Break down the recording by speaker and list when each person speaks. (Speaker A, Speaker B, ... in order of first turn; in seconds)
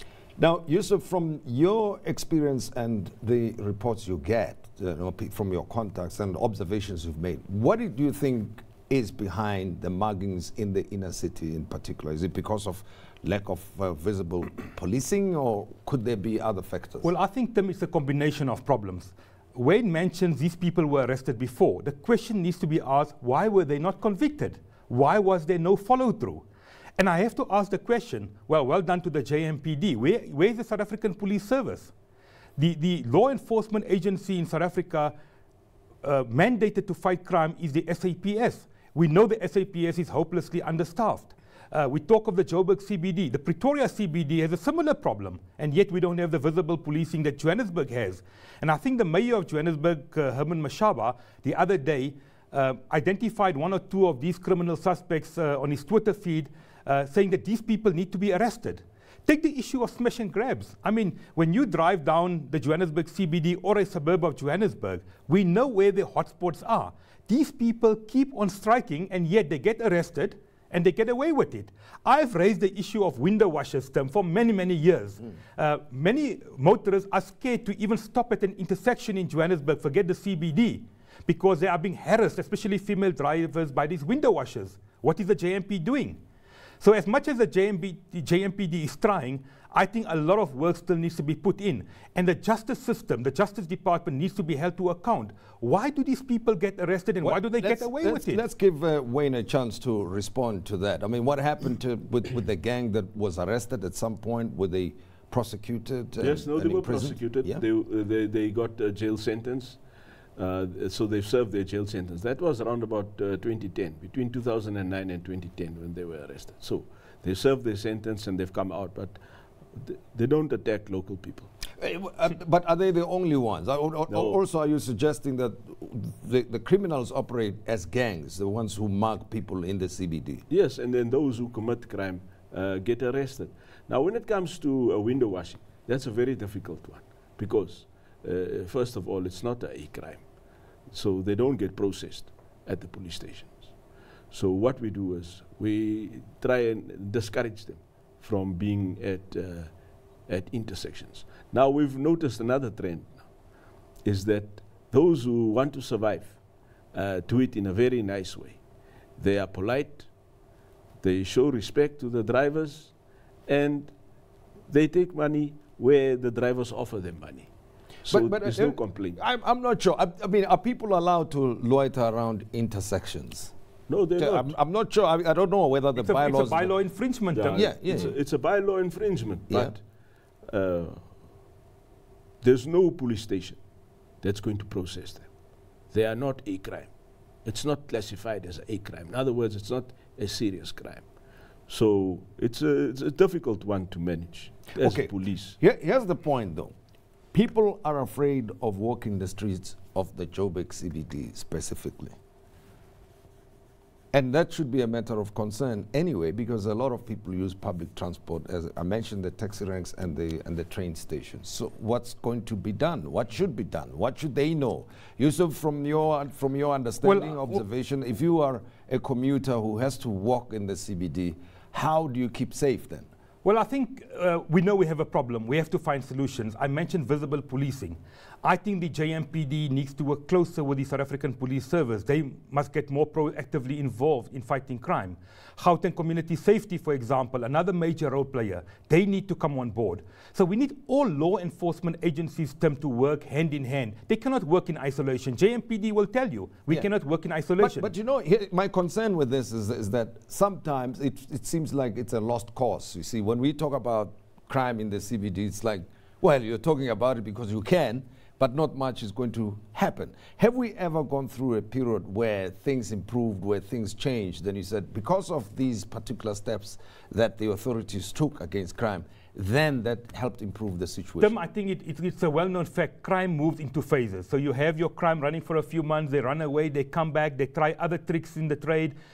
Speaker A: 0.4-17.1, 97.2-107.6, 121.8-130.4, 168.1-173.5, 174.2-176.8, 177.5-178.2, 179.5-179.8, 194.8-196.7, 197.3-202.2, 204.1-223.1, 247.6-271.3
Speaker B: 17.0-26.4, 27.0-31.9, 32.6-35.1, 36.0-86.2, 86.8-98.4, 175.9-177.7, 217.0-217.6, 223.4-247.9, 271.2-278.9
Speaker C: 106.2-109.8, 110.3-119.2, 119.7-121.5, 124.1-124.4, 130.5-140.3, 140.9-143.8, 144.3-153.3, 154.0-158.6, 159.2-160.1, 161.0-162.9, 163.5-163.9, 164.7-167.5, 168.0-169.2, 173.9-174.6, 177.3-179.8, 180.4-181.1, 182.4-183.6, 184.2-185.3, 185.9-186.9, 187.4-191.1, 191.7-195.6